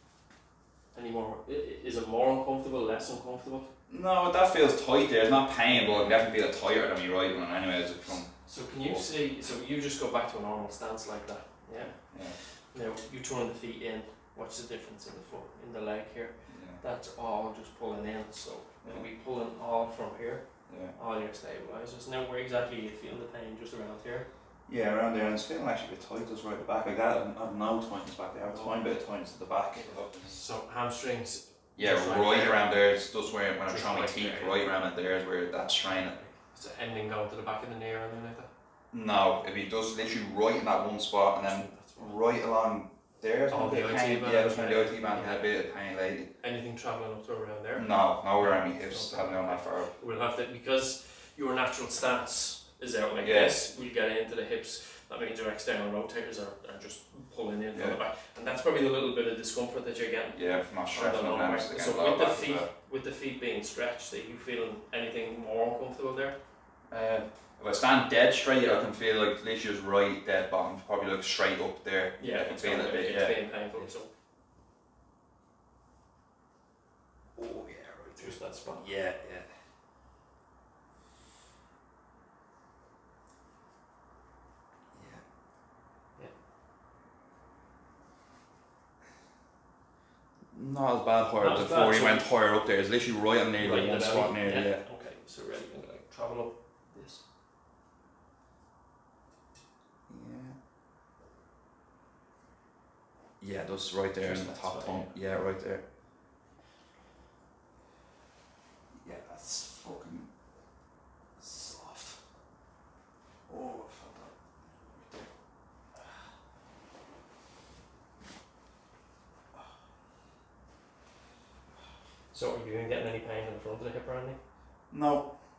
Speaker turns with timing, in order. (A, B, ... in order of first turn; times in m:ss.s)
0:00.9-0:03.7 A
0:03.9-0:09.2 B
0:05.7-0:06.2 A
0:08.4-0:24.3 A
0:12.1-0:12.4 B
0:16.5-0:16.8 B
0:20.7-0:21.0 B
0:24.7-0:30.4 B
0:28.4-0:29.1 A
0:29.8-0:32.7 A
0:31.8-0:36.2 B
0:33.7-0:34.7 A
0:35.9-0:38.5 A
0:38.9-0:46.3 B
0:41.4-0:42.2 A
0:43.5-0:45.5 A
0:46.4-1:06.4 A
0:47.8-0:49.9 B
0:53.2-0:53.6 B
0:57.7-0:58.0 B
1:00.3-1:02.7 B
1:06.9-1:13.9 B
1:12.2-1:14.1 A
1:17.4-1:19.5 B
1:18.2-1:18.9 A
1:24.9-1:25.2 B
1:30.5-1:34.8 B
1:31.4-1:32.3 A
1:33.6-1:37.2 A
1:40.1-1:40.6 B
1:43.4-1:45.8 B
1:44.2-1:45.2 A
1:48.9-1:50.3 B
1:51.4-1:52.2 B
1:53.5-1:55.3 B
2:02.3-2:04.4 A
2:04.9-2:05.4 B